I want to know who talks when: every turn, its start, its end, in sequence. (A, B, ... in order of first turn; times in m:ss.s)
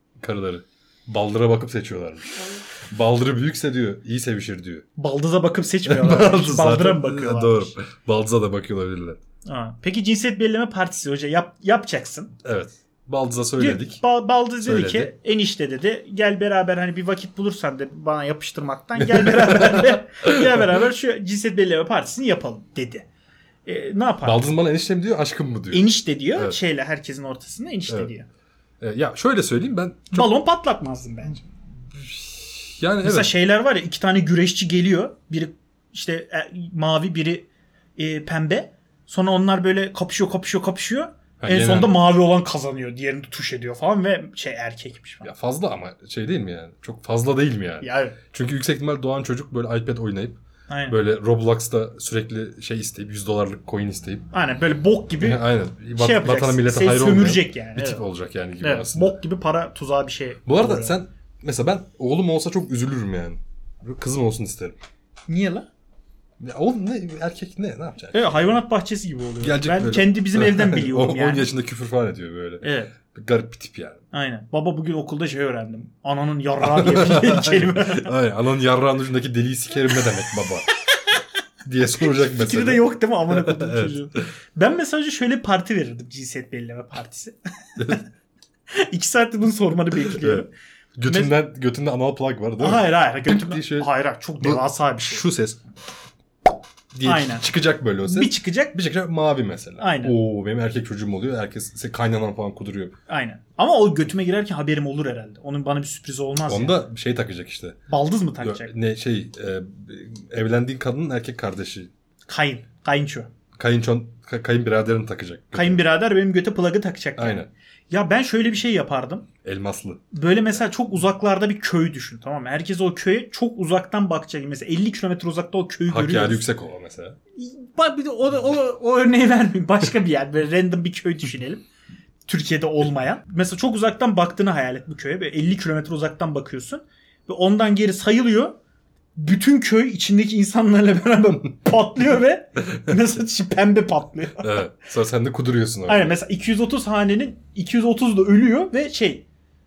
0:00.2-0:04.8 A
0:05.0-0:07.8 B
0:05.8-0:09.2 A
0:09.5-0:12.3 B
0:12.4-0:14.0 A
0:13.6-0:23.1 B
0:14.6-0:15.1 A
0:19.0-0:20.6 A
0:23.7-0:24.5 B
0:24.2-0:26.6 A
0:25.7-0:28.3 B
0:28.8-0:30.3 A
0:30.1-0:31.4 B
0:32.0-0:33.3 A
0:33.0-0:45.3 B
0:41.4-0:42.0 A
0:45.2-0:54.3 A
0:47.8-0:48.2 B
0:50.7-0:51.0 B
0:54.3-0:55.4 B
0:55.2-0:59.2 A
0:56.0-0:58.0 B
0:58.6-1:01.0 B
1:00.5-1:04.8 A
1:05.3-1:05.7 B
1:06.4-1:08.4 A
1:08.1-1:11.5 B
1:09.4-1:14.0 A
1:12.6-1:12.9 B
1:14.1-1:18.1 B
1:16.6-1:20.7 A
1:20.7-1:21.2 B
1:21.6-1:24.2 A
1:22.1-1:28.0 B
1:27.8-1:28.0 A
1:28.7-1:30.5 B
1:30.0-1:30.5 A
1:31.0-1:35.6 A
1:31.1-1:31.3 B
1:32.6-1:35.3 B
1:37.0-1:42.9 A
1:37.0-1:37.5 B
1:38.0-1:38.8 B
1:39.8-1:40.2 B
1:43.1-1:46.8 B
1:46.5-1:47.8 A
1:47.9-1:48.7 B
1:48.4-1:51.9 A
1:52.3-1:53.3 B
1:53.6-1:55.8 A
1:55.5-1:59.3 B
1:57.2-1:57.5 A
1:59.4-2:00.0 A
2:00.1-2:06.4 B
2:05.9-2:07.2 A
2:07.4-2:11.6 B
2:12.3-2:18.5 B
2:19.2-2:24.6 B
2:24.4-2:26.2 A
2:25.9-2:29.3 B